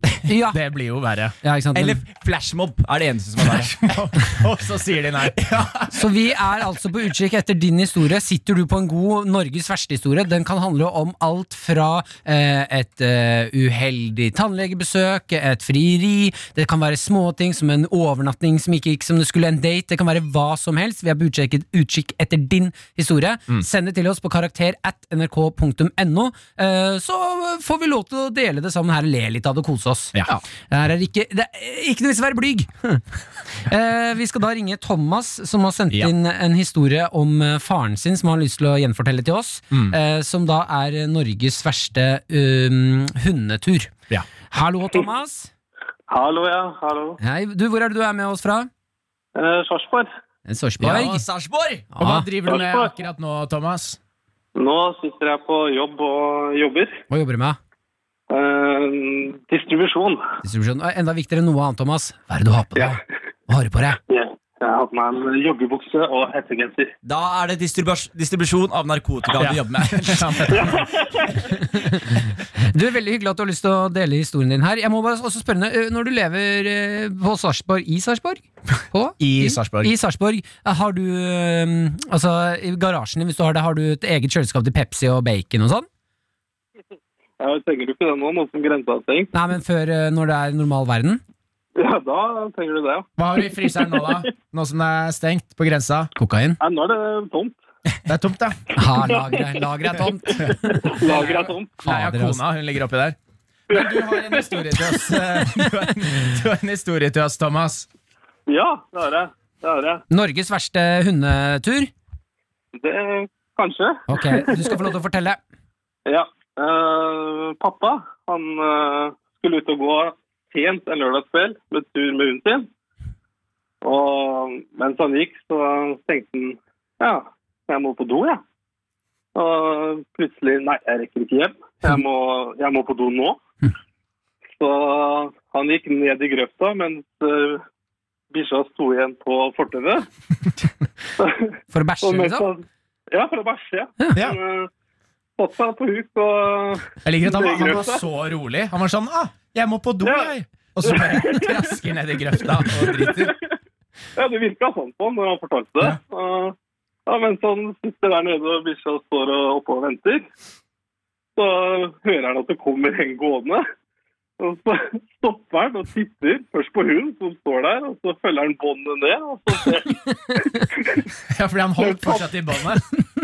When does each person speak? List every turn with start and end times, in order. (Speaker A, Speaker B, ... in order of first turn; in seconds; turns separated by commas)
Speaker A: 0.3-0.6, Speaker B: 0.3-1.4, Speaker A: 1.4-2.0, Speaker C: 1.7-4.0, Speaker B: 3.8-6.1, Speaker A: 5.9-33.0, Speaker B: 30.1-30.4, Speaker A: 33.6-43.9, Speaker A: 44.5-45.5, Speaker D: 46.1-47.2, Speaker A: 47.2-48.7, Speaker D: 49.3-50.1, Speaker A: 50.5-51.2, Speaker B: 50.8-51.2, Speaker C: 50.8-51.9, Speaker A: 52.0-52.3, Speaker B: 52.0-54.0, Speaker D: 52.5-52.9, Speaker D: 54.5-57.0, Speaker A: 57.1-57.6, Speaker D: 58.3-60.2, Speaker A: 60.4-64.0, Speaker D: 64.1-66.9, Speaker C: 67.0-70.4, Speaker B: 69.4-70.9, Speaker D: 70.5-71.3, Speaker A: 71.6-85.9, Speaker B: 79.2-79.9, Speaker D: 87.4-89.3, Speaker A: 89.3-91.2, Speaker D: 91.8-94.3, Speaker B: 93.2-96.1, Speaker A: 96.2-96.6, Speaker D: 96.6-97.6, Speaker B: 98.0-98.6, Speaker A: 98.8-102.4, Speaker D: 99.1-101.7, Speaker B: 101.8-103.2, Speaker B: 103.7-107.9, Speaker D: 103.7-104.5, Speaker D: 108.5-110.0, Speaker A: 110.1-111.9, Speaker D: 112.7-114.7, Speaker A: 114.1-115.4, Speaker D: 116.0-122.7, Speaker D: 123.8-128.4, Speaker D: 129.3-133.4, Speaker D: 134.6-137.6, Speaker D: 138.3-140.1, Speaker D: 141.2-144.7, Speaker A: 141.7-142.5, Speaker D: 145.4-148.0, Speaker B: 147.0-153.3, Speaker D: 150.0-150.3, Speaker D: 150.8-151.7, Speaker D: 152.4-153.4, Speaker D: 154.2-156.5, Speaker D: 157.1-160.2, Speaker D: 161.3-163.6, Speaker D: 164.4-171.1, Speaker B: 171.3-172.8, Speaker D: 171.8-172.3